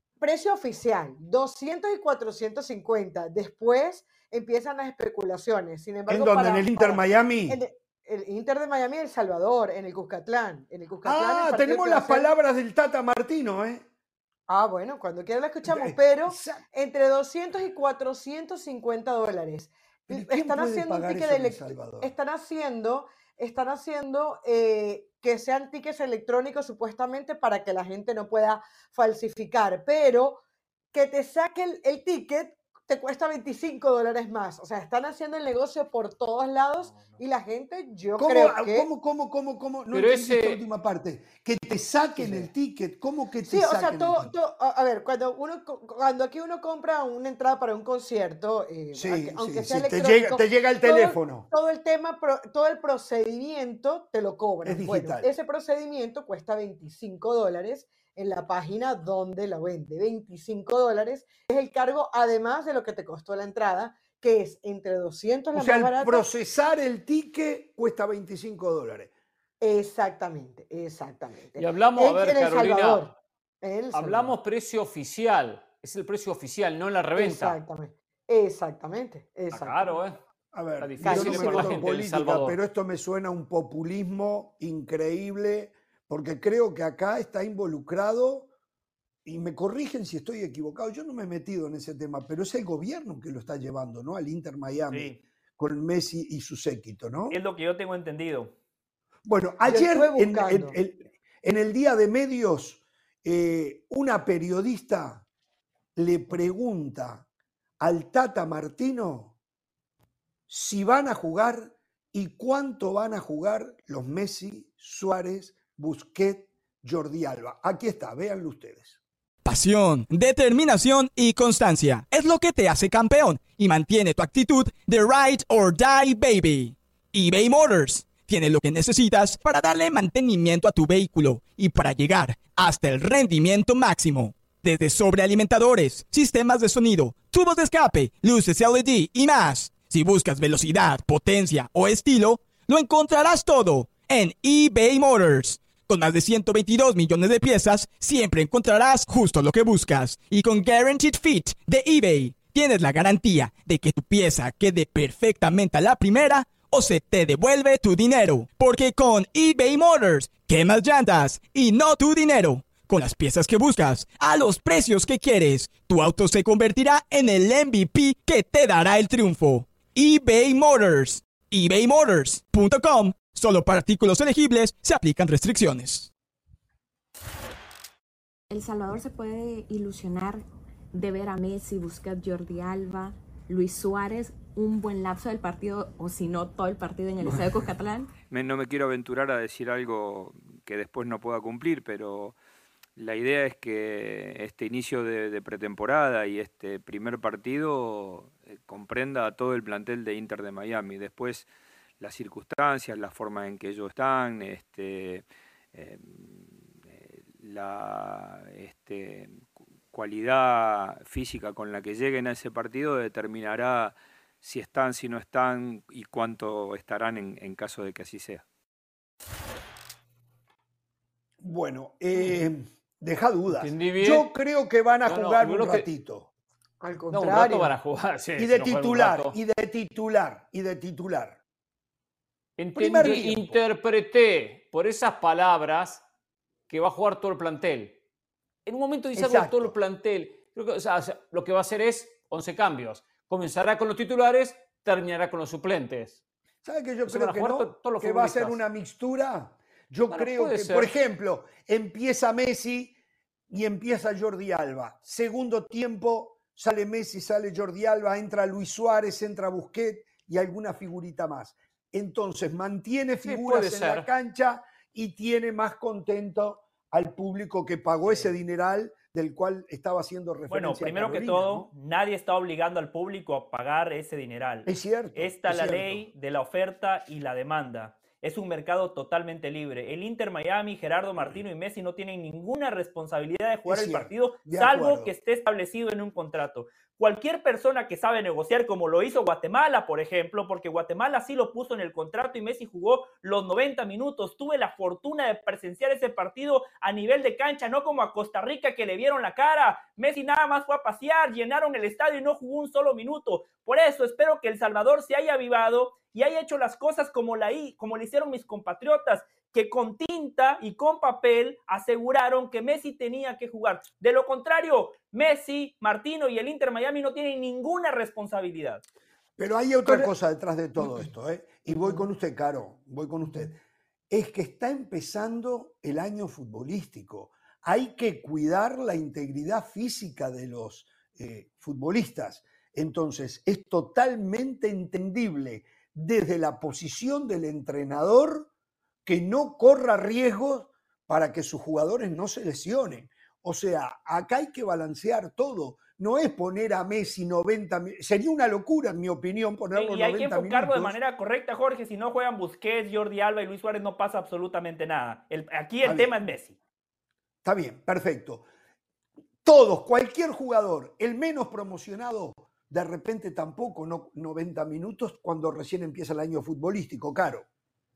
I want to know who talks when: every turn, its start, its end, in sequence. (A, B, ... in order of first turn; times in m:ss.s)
0:00.2-0:12.3 A
0:06.1-0:07.6 B
0:11.0-0:13.8 B
0:14.5-0:30.4 A
0:15.7-0:16.6 B
0:20.1-0:22.1 B
0:30.9-0:38.9 A
0:36.9-0:37.2 C
0:38.2-0:44.3 B
0:39.9-0:40.6 C
0:42.2-0:42.5 A
0:43.5-1:06.3 A
0:48.9-0:51.5 B
0:54.6-0:55.3 B
1:05.5-1:09.1 B
1:09.6-1:13.1 A
1:11.6-1:13.1 C
1:13.6-1:14.3 A
1:13.9-1:17.6 C
1:17.2-1:20.0 A
1:19.5-1:20.2 C
1:20.5-1:28.5 B
1:20.8-1:22.6 C
1:21.0-1:21.8 A
1:29.2-1:37.4 B
1:34.9-1:35.2 D
1:37.3-1:38.5 D
1:39.2-1:45.2 B
1:39.7-1:40.8 A
1:46.0-1:47.3 B
1:47.8-1:49.4 B
1:50.5-1:59.0 B
1:59.4-2:56.1 E
2:58.5-3:08.1 F
3:08.3-3:12.4 G
3:13.0-3:21.5 G
3:22.0-3:38.4 G
3:41.4-3:46.3 B
3:43.5-3:44.3 C
3:45.0-3:45.9 C
3:46.8-3:47.7 A
3:47.1-3:49.4 C
3:48.4-3:51.4 B
3:52.6-3:56.0 C
3:52.8-3:53.6 B
3:56.7-3:58.0 C
3:58.7-4:06.2 C
3:59.2-3:59.7 B
4:06.6-4:12.9 B
4:07.1-4:08.6 C
4:10.1-4:10.9 C
4:13.5-4:31.7 B
4:23.2-4:24.1 C
4:28.0-4:28.3 D
4:30.5-5:18.8 D
4:34.7-4:36.0 B
4:43.7-4:45.1 B
5:19.4-5:38.5 B
5:39.1-5:51.0 B
5:49.7-5:56.6 D
5:55.8-5:56.1 B
5:57.4-5:58.4 B
5:59.4-6:07.4 B